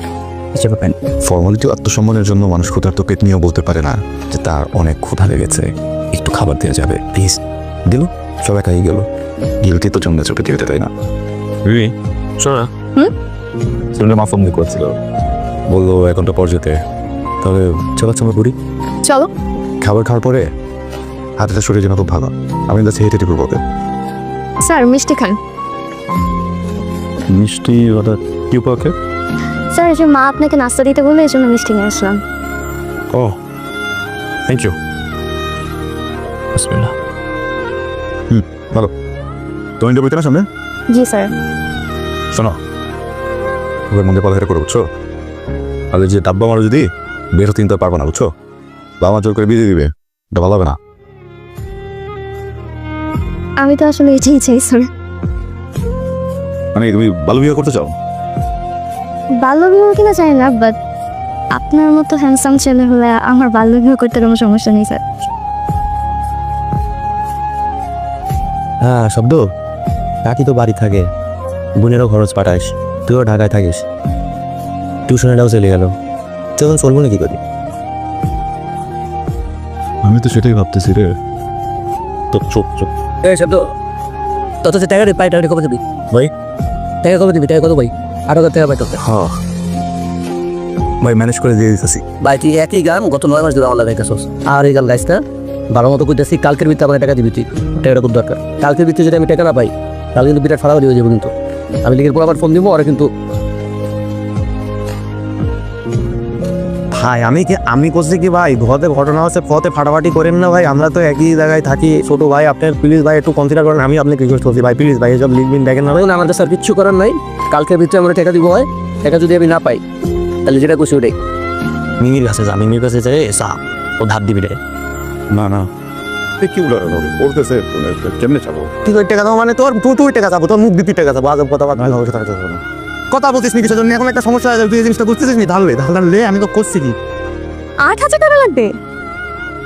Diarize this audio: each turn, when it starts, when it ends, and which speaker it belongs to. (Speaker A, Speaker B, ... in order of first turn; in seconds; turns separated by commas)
Speaker A: 0.6-9.0, Speaker A: 9.6-10.9, Speaker A: 11.7-12.7, Speaker A: 13.9-14.9, Speaker A: 15.7-16.8, Speaker A: 17.4-18.5, Speaker B: 19.0-19.3, Speaker A: 19.8-20.5, Speaker A: 21.4-23.6, Speaker B: 24.6-25.4, Speaker A: 27.3-28.9, Speaker C: 29.7-32.2, Speaker A: 33.1-33.4, Speaker A: 34.5-34.7, Speaker A: 36.6-36.9, Speaker A: 38.3-38.9, Speaker A: 39.8-40.5, Speaker C: 40.9-41.3, Speaker A: 42.3-42.6, Speaker A: 43.9-44.8, Speaker A: 45.9-48.3, Speaker A: 49.0-50.8, Speaker C: 53.6-54.9, Speaker A: 56.8-57.9, Speaker C: 59.4-60.8, Speaker C: 61.5-65.0, Speaker A: 68.9-69.4, Speaker A: 70.3-70.9, Speaker A: 71.9-72.4, Speaker A: 73.2-73.5, Speaker D: 75.1-75.7, Speaker A: 75.1-75.8, Speaker A: 76.8-77.2, Speaker D: 76.8-77.2, Speaker A: 80.0-81.1, Speaker A: 82.3-82.9, Speaker E: 83.2-83.6, Speaker E: 84.6-85.8, Speaker E: 87.0-89.0, Speaker A: 89.0-89.3, Speaker A: 91.0-92.0, Speaker E: 92.2-95.2, Speaker E: 95.7-101.3, Speaker E: 101.8-103.1, Speaker D: 106.9-116.1, Speaker E: 115.9-119.8, Speaker E: 120.5-121.2, Speaker D: 122.0-124.6, Speaker A: 125.3-125.7, Speaker A: 126.4-128.7, Speaker D: 128.9-136.9, Speaker B: 137.8-138.7